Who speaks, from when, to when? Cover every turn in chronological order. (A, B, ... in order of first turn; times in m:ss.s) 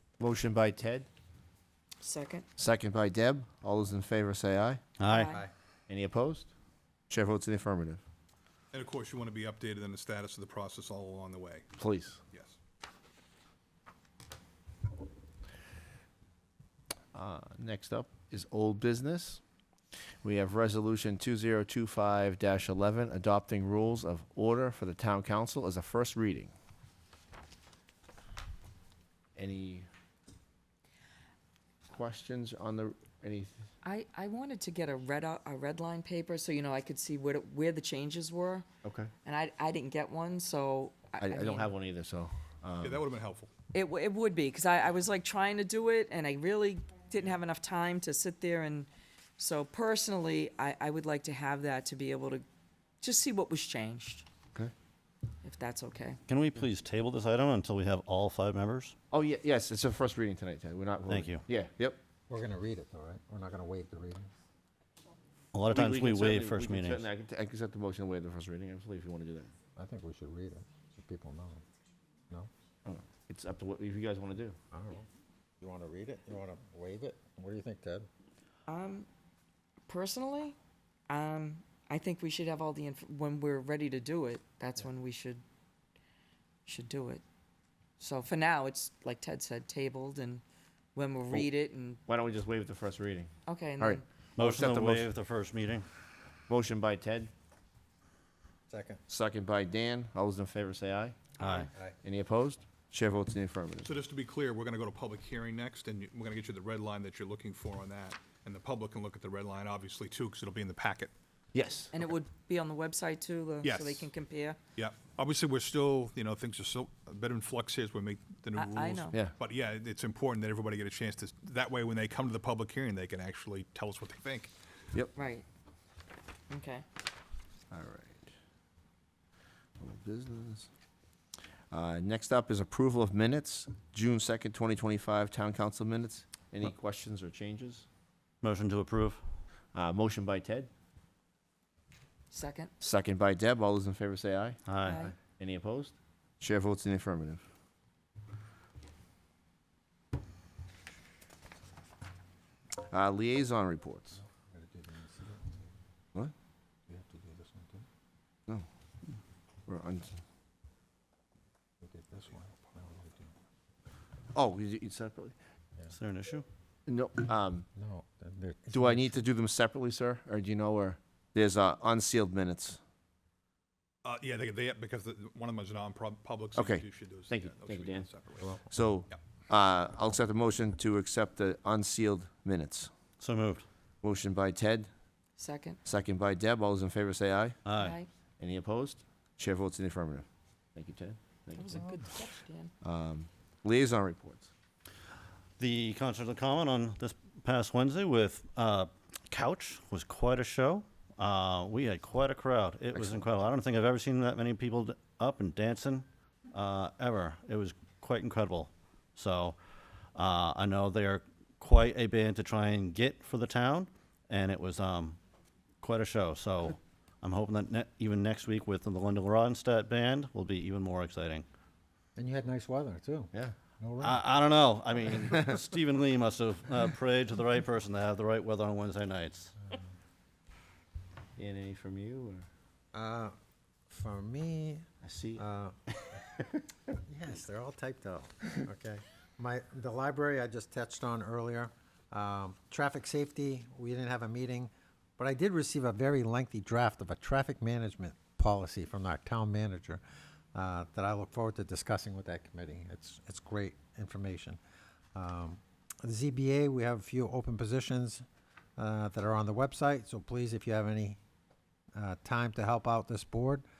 0:00.2-0:01.1 A
0:02.0-0:02.5 B
0:02.6-0:04.8 A
0:05.0-0:05.3 C
0:05.1-0:05.5 B
0:05.9-0:06.5 A
0:07.1-0:08.0 A
0:08.7-0:11.6 D
0:11.8-0:12.2 A
0:17.1-0:19.4 A
0:20.2-0:26.5 A
0:29.4-0:29.9 A
0:31.9-0:33.6 A
0:33.8-0:38.6 B
0:38.8-0:39.1 A
0:39.2-0:41.7 B
0:41.2-0:43.0 A
0:42.8-0:43.5 D
0:43.7-0:52.4 B
0:53.0-0:54.2 B
0:55.4-0:56.2 B
0:56.3-0:58.9 C
0:59.1-1:02.0 A
1:01.1-1:01.4 C
1:02.3-1:04.3 E
1:05.5-1:07.1 C
1:05.7-1:09.5 A
1:09.7-1:11.6 E
1:12.8-1:14.6 A
1:14.7-1:15.1 E
1:15.6-1:18.1 E
1:18.7-1:19.1 B
1:19.9-1:20.6 B
1:21.1-1:25.4 B
1:26.6-1:27.2 B
1:28.0-1:30.4 B
1:30.9-1:32.0 B
1:32.1-1:35.1 A
1:33.5-1:34.0 B
1:34.4-1:35.9 C
1:36.5-1:37.3 A
1:38.7-1:39.0 E
1:39.1-1:41.2 A
1:41.4-1:41.7 C
1:41.4-1:41.7 B
1:42.0-1:43.9 A
1:43.8-1:51.1 D
1:51.5-1:51.9 A
1:51.9-1:54.6 B
1:53.6-1:54.1 D
1:54.8-2:04.5 D
1:58.5-1:59.2 B
2:05.1-2:05.4 B
2:06.5-2:06.8 B
2:07.7-2:08.3 A
2:09.8-2:10.7 A
2:11.7-2:17.8 A
2:18.4-2:19.2 C
2:19.7-2:20.7 A
2:22.3-2:22.7 B
2:22.8-2:24.6 A
2:24.6-2:25.0 C
2:24.8-2:25.1 B
2:25.2-2:27.4 A
2:32.9-2:34.2 A
2:34.2-2:35.5 E
2:36.9-2:37.8 E
2:39.7-2:40.1 A
2:41.8-2:43.3 E
2:44.3-2:45.4 A
2:45.9-2:46.4 C
2:46.8-2:47.7 A
2:47.8-2:49.2 E
2:48.7-2:52.8 A
2:54.0-2:58.6 D
2:56.5-2:58.1 A
2:58.6-3:02.9 A
3:03.2-3:03.6 C
3:04.0-3:04.9 A
3:05.4-3:05.8 B
3:05.8-3:07.6 A
3:07.6-3:08.0 C
3:07.7-3:08.1 B
3:08.4-3:11.8 A
3:11.6-3:12.7 B
3:12.8-3:14.5 A
3:15.6-3:29.6 C
3:30.1-3:35.2 C
3:35.8-3:41.4 C
3:42.2-3:44.2 E
3:44.0-3:49.5 C
3:51.4-3:52.5 A
3:52.9-3:53.3 E
3:53.9-3:54.8 E
3:55.0-3:55.4 A
3:55.4-3:55.8 E
3:57.0-4:10.0 E
4:10.5-4:14.6 E
4:15.1-4:18.2 E
4:18.8-4:21.2 E
4:21.9-4:23.6 E